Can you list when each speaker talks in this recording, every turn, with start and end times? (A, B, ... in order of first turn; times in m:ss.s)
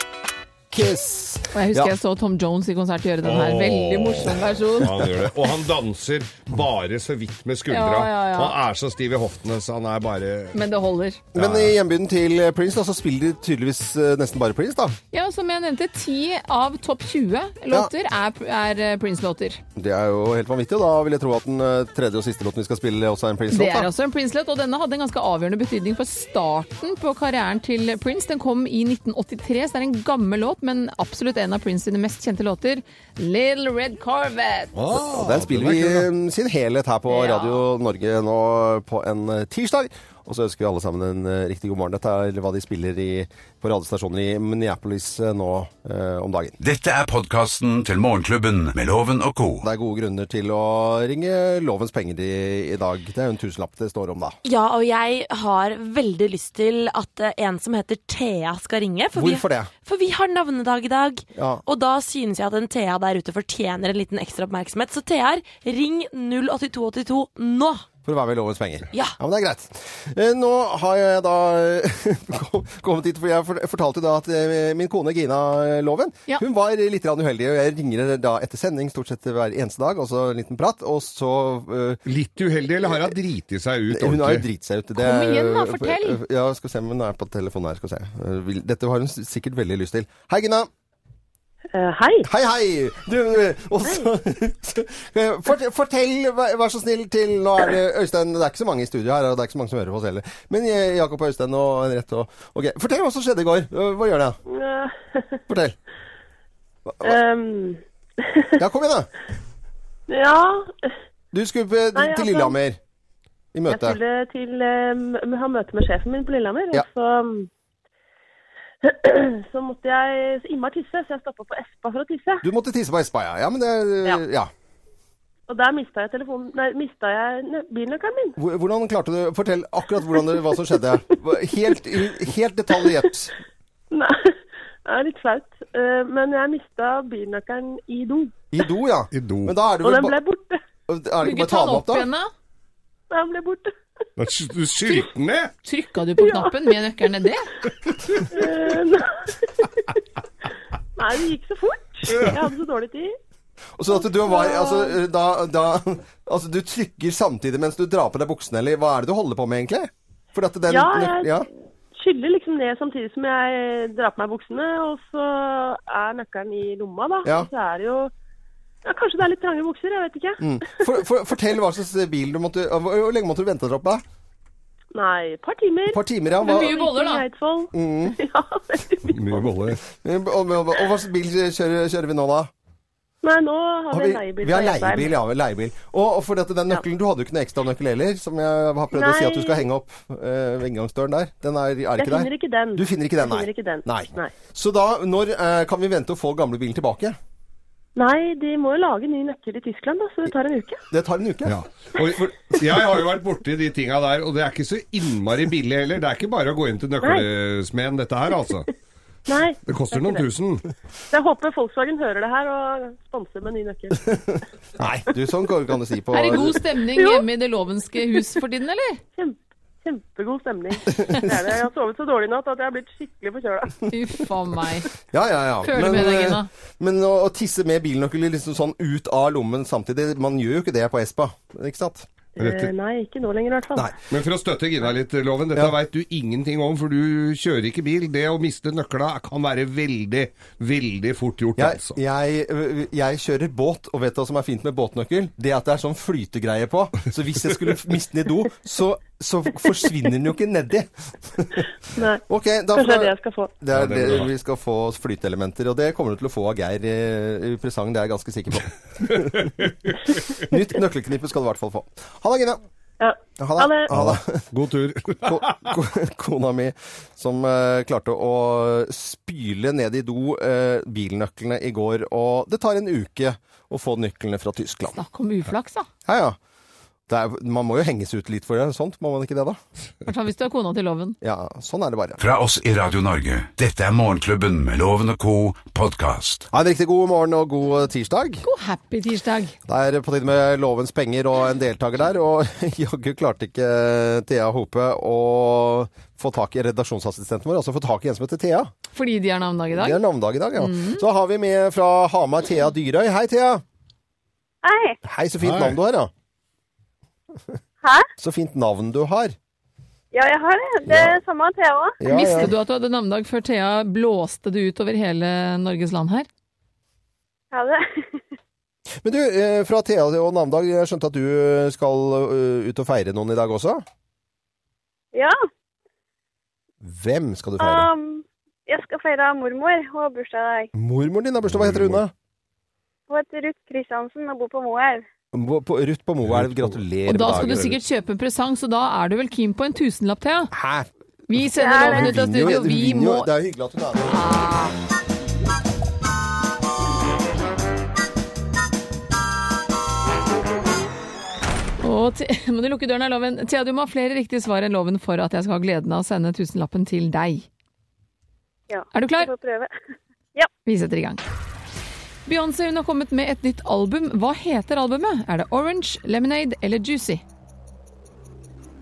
0:00.7-0:01.9 A
0:01.5-0:04.9 B
0:03.2-0:10.6 C
0:07.7-0:08.6 B
0:10.5-0:11.2 B
0:11.3-0:15.0 A
0:11.3-0:11.7 C
0:15.1-0:19.6 B
0:19.8-0:23.9 A
0:23.5-0:34.7 B
0:34.7-0:36.1 C
0:34.9-0:46.6 A
0:37.1-0:37.6 B
0:46.6-0:49.7 D
0:49.6-0:54.4 A
0:54.4-1:07.8 E
0:59.1-0:59.7 A
1:01.3-1:01.6 A
1:08.0-1:22.0 A
1:22.0-1:24.4 C
1:23.9-1:30.7 A
1:24.9-1:26.2 B
1:31.7-1:32.3 F
1:32.2-1:44.4 A
1:44.5-1:45.4 F
1:45.5-1:45.8 A
1:46.8-1:47.2 A
1:47.0-1:48.5 F
1:48.6-1:49.1 A
1:50.1-1:50.9 F
1:51.3-1:52.8 A
1:51.9-1:52.5 F
1:53.5-1:54.0 A
1:53.7-1:57.5 F
1:58.8-2:02.4 F
2:02.4-2:04.5 A
2:05.5-2:08.4 F
2:08.4-2:13.3 A
2:13.9-2:18.3 F
2:18.5-2:20.2 A
2:19.1-2:19.5 C
2:19.8-2:20.6 F
2:20.9-2:22.1 A
2:21.2-2:22.3 B
2:23.1-2:23.7 F
2:24.2-2:25.5 C
2:25.6-2:27.5 B
2:26.2-2:26.5 F
2:28.3-2:30.0 F
2:31.0-2:33.1 F
2:32.1-2:32.4 C
2:33.8-2:41.5 A
2:34.0-2:35.0 F
2:40.7-2:41.3 F
2:41.9-2:48.1 F
2:48.8-2:50.4 F
2:50.4-2:54.0 A
2:54.9-2:59.4 F
2:55.9-2:56.7 A
2:56.4-2:57.2 B
2:57.7-2:58.2 A
2:59.1-2:59.8 C
3:00.0-3:02.5 A
3:03.2-3:05.1 F
3:03.9-3:17.2 A
3:08.9-3:09.6 F
3:12.0-3:14.3 F
3:18.0-3:20.8 F
3:20.9-3:21.6 A
3:21.4-3:28.7 C
3:22.2-3:22.6 A
3:29.3-3:30.2 F
3:29.6-3:30.6 C
3:31.1-3:34.2 F
3:34.1-3:36.6 A
3:36.1-3:39.0 B
3:36.9-3:37.3 F
3:39.1-3:43.9 F
3:40.9-3:41.2 A
3:43.9-3:44.9 B
3:45.1-3:52.1 A
3:45.6-3:46.5 B
3:52.4-3:53.9 F
3:52.4-3:52.7 C
3:54.1-4:02.0 C
4:01.6-4:11.7 A
4:11.9-4:12.2 F
4:12.2-4:19.6 A
4:12.7-4:13.5 F
4:13.7-4:14.3 C
4:19.1-4:20.0 C
4:20.4-4:22.6 A
4:23.0-4:23.9 F
4:23.4-4:24.4 A
4:23.9-4:25.7 C
4:25.2-4:35.0 A
4:34.9-4:35.9 B
4:36.0-4:36.4 A
4:37.1-4:39.6 A
4:40.0-4:41.2 B
4:41.2-4:42.2 A
4:42.2-4:46.5 D
4:46.5-4:48.4 A
4:48.4-4:49.6 B
4:49.6-4:58.7 A
4:58.9-5:00.0 B
4:59.7-5:03.6 A
5:00.6-5:01.0 B
5:04.6-5:05.0 G
5:05.0-5:06.1 A
5:05.4-5:05.8 C
5:08.2-5:09.4 A
5:10.1-5:12.0 G
5:10.9-5:11.2 A
5:12.0-5:12.5 A
5:12.1-5:16.3 B
5:17.5-5:18.2 G
5:19.0-5:23.8 A
5:26.8-5:27.9 A
5:27.6-5:30.7 G
5:30.7-5:32.1 A
5:31.5-5:32.0 C
5:33.1-5:35.0 G
5:35.3-5:37.8 A
5:36.2-5:37.7 C
5:37.1-5:40.5 B
5:40.5-5:44.3 A
5:41.3-5:43.3 B
5:41.5-5:42.1 G
5:44.1-5:44.8 B
5:51.8-5:57.4 B
5:58.7-5:59.7 G
5:58.9-5:59.3 B
6:00.6-6:01.2 B
6:02.2-6:07.2 B